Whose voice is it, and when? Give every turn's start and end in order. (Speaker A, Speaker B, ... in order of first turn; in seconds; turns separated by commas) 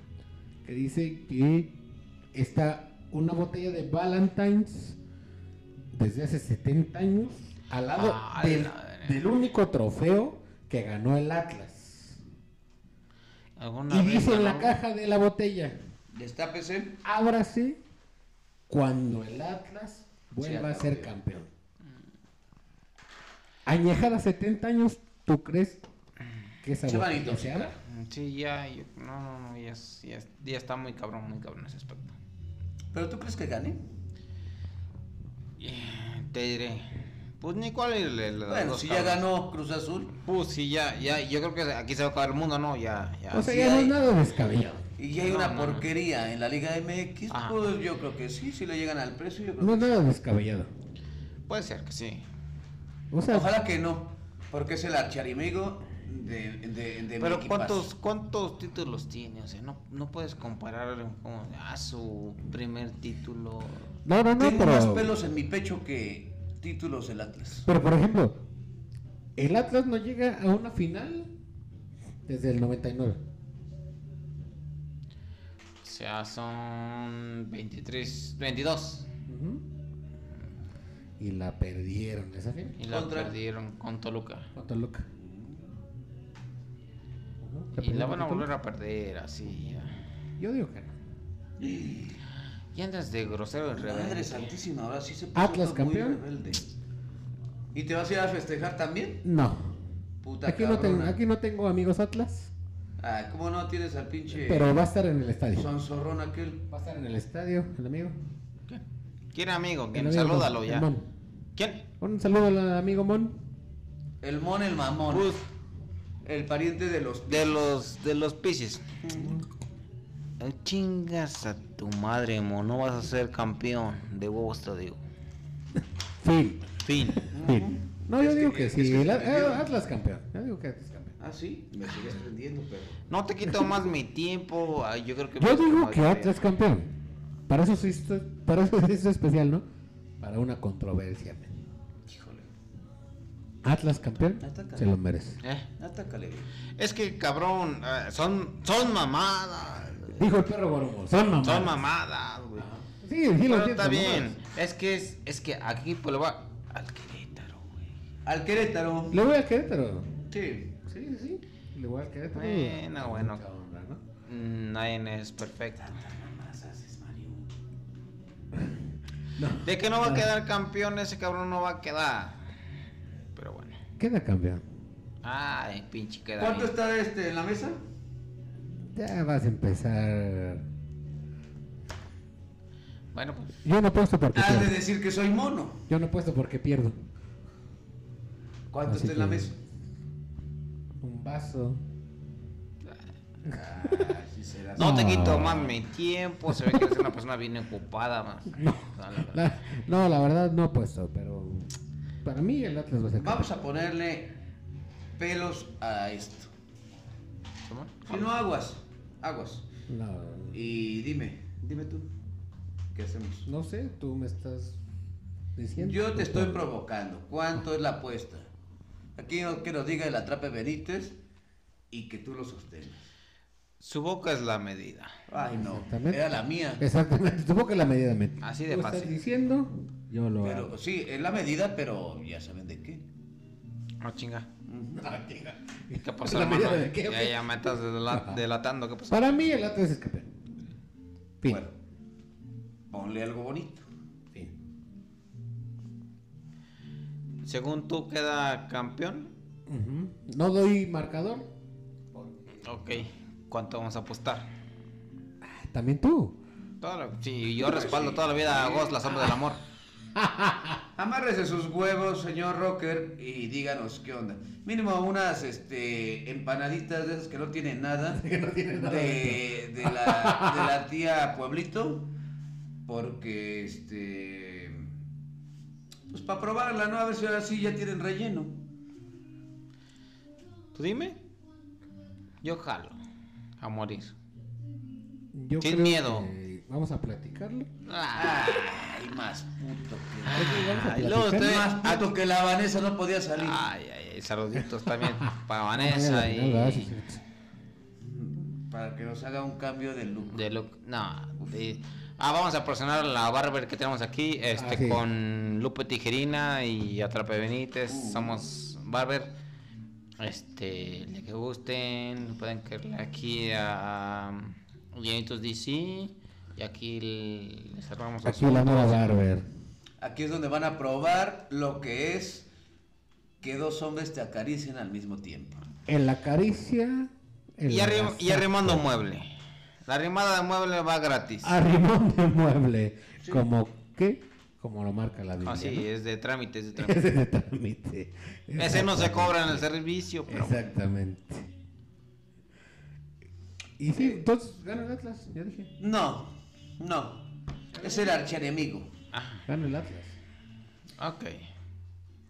Speaker A: 0.7-1.8, Speaker A: 2.3-5.0, Speaker A: 5.9-12.2, Speaker B: 8.0-9.2, Speaker B: 13.6-14.8, Speaker A: 13.9-15.8, Speaker C: 16.1-17.0, Speaker A: 17.0-17.8, Speaker A: 18.7-21.5, Speaker C: 20.4-21.1, Speaker A: 23.7-25.8, Speaker A: 26.6-27.7, Speaker C: 26.9-27.7, Speaker B: 27.8-32.2, Speaker C: 32.9-33.8, Speaker B: 35.6-39.2, Speaker C: 38.5-40.1, Speaker B: 40.2-44.0, Speaker A: 43.3-44.8, Speaker C: 45.0-49.9, Speaker B: 45.2-45.9, Speaker B: 47.3-47.6, Speaker A: 49.6-50.7, Speaker B: 51.5-52.3, Speaker A: 53.1-53.5, Speaker C: 53.3-57.9, Speaker B: 57.2-63.9, Speaker A: 64.0-65.1, Speaker C: 64.4-67.7, Speaker A: 67.7-68.4, Speaker A: 69.4-71.3, Speaker A: 72.3-73.2, Speaker B: 75.8-79.1, Speaker A: 79.3-79.6, Speaker A: 81.2-82.8, Speaker B: 82.8-84.5, Speaker C: 82.9-83.3, Speaker A: 84.5-85.1, Speaker C: 85.2-85.7, Speaker A: 87.4-88.5, Speaker B: 87.8-90.0, Speaker A: 90.4-91.0, Speaker C: 91.6-92.2, Speaker B: 92.7-94.5, Speaker C: 93.8-96.6, Speaker A: 95.3-96.2, Speaker C: 97.7-99.2, Speaker A: 99.2-99.8, Speaker C: 100.2-101.2, Speaker A: 100.5-102.5, Speaker C: 103.0-104.8, Speaker A: 104.3-105.7, Speaker C: 105.5-106.6, Speaker A: 106.7-108.2, Speaker B: 108.7-110.9, Speaker A: 109.9-111.1, Speaker B: 111.6-111.8, Speaker A: 112.0-113.4, Speaker C: 114.2-115.3, Speaker B: 115.1-115.5, Speaker C: 116.2-117.7, Speaker B: 117.3-118.8, Speaker C: 119.0-119.4, Speaker B: 120.4-125.0, Speaker A: 126.2-131.2, Speaker B: 126.8-127.3, Speaker C: 127.3-129.7, Speaker C: 131.2-133.0, Speaker B: 133.1-136.4, Speaker A: 135.4-136.9, Speaker A: 137.5-139.6, Speaker A: 140.2-141.6, Speaker C: 142.1-142.4, Speaker A: 143.6-145.4, Speaker C: 144.4-144.9, Speaker B: 145.4-145.7, Speaker C: 145.8-146.5, Speaker B: 146.8-150.2, Speaker A: 150.1-151.8, Speaker B: 151.4-152.7, Speaker A: 153.0-154.4, Speaker B: 153.5-157.9, Speaker C: 158.2-159.2, Speaker A: 159.1-160.2, Speaker C: 160.3-160.7, Speaker A: 160.8-164.0, Speaker B: 162.3-163.4, Speaker B: 164.3-166.0, Speaker C: 165.8-167.5, Speaker A: 169.4-170.3, Speaker B: 169.6-172.5, Speaker B: 173.3-173.8, Speaker A: 174.0-174.6, Speaker B: 175.2-176.7, Speaker C: 176.4-177.8, Speaker A: 178.9-180.6, Speaker B: 183.1-183.6, Speaker A: 183.6-184.8, Speaker C: 184.3-185.8, Speaker A: 185.9-187.0, Speaker C: 188.7-189.5, Speaker A: 188.9-189.5, Speaker A: 191.0-191.8, Speaker A: 193.5-194.2, Speaker C: 193.5-195.8, Speaker B: 194.8-199.5, Speaker A: 194.8-195.7, Speaker A: 196.5-196.9, Speaker A: 198.5-201.7, Speaker A: 202.2-203.5, Speaker C: 203.2-204.3, Speaker C: 205.2-206.5, Speaker B: 207.7-208.2, Speaker C: 208.1-209.7, Speaker A: 209.9-210.6, Speaker C: 210.5-212.1, Speaker C: 212.9-213.5, Speaker A: 213.5-214.8, Speaker A: 215.6-216.7, Speaker C: 215.8-218.5, Speaker C: 219.2-221.2, Speaker C: 221.9-223.1, Speaker B: 223.8-225.2, Speaker C: 225.3-226.8, Speaker A: 225.6-226.2, Speaker A: 226.8-230.7, Speaker B: 228.4-229.2, Speaker C: 230.4-233.0, Speaker B: 234.0-234.5, Speaker C: 234.7-235.0, Speaker A: 235.0-237.4, Speaker B: 236.0-239.4, Speaker A: 238.1-238.4, Speaker A: 239.1-240.3, Speaker C: 241.4-241.7, Speaker C: 242.9-243.9, Speaker B: 247.4-249.3, Speaker A: 249.7-251.5, Speaker A: 252.1-252.5, Speaker B: 252.6-254.5, Speaker A: 255.4-256.4, Speaker B: 256.8-259.6, Speaker C: 257.6-259.4, Speaker A: 260.2-260.8, Speaker C: 261.0-268.2, Speaker A: 268.1-270.7, Speaker C: 268.8-272.1, Speaker C: 272.9-274.9, Speaker C: 276.1-278.6, Speaker B: 280.8-281.2, Speaker B: 282.4-283.0, Speaker B: 283.6-284.1, Speaker A: 285.3-287.7, Speaker B: 285.6-286.3, Speaker B: 287.9-288.8, Speaker C: 288.1-293.6, Speaker B: 290.2-292.1, Speaker A: 290.3-291.5, Speaker B: 293.4-296.9, Speaker A: 295.2-297.2, Speaker C: 298.0-300.5, Speaker B: 300.3-309.3, Speaker A: 304.6-305.0, Speaker C: 307.9-308.4, Speaker B: 310.2-319.1, Speaker A: 318.2-319.4, Speaker C: 320.0-322.5, Speaker C: 323.4-325.6, Speaker A: 325.9-328.8, Speaker B: 327.7-329.3, Speaker B: 329.9-331.6, Speaker A: 331.4-335.9, Speaker B: 335.4-337.0, Speaker A: 336.8-339.6, Speaker B: 338.6-340.6, Speaker A: 340.3-341.5, Speaker A: 343.8-345.7, Speaker C: 345.8-347.2, Speaker A: 347.8-348.2, Speaker C: 347.8-348.9, Speaker B: 349.1-349.5, Speaker A: 349.5-350.2, Speaker B: 351.0-351.5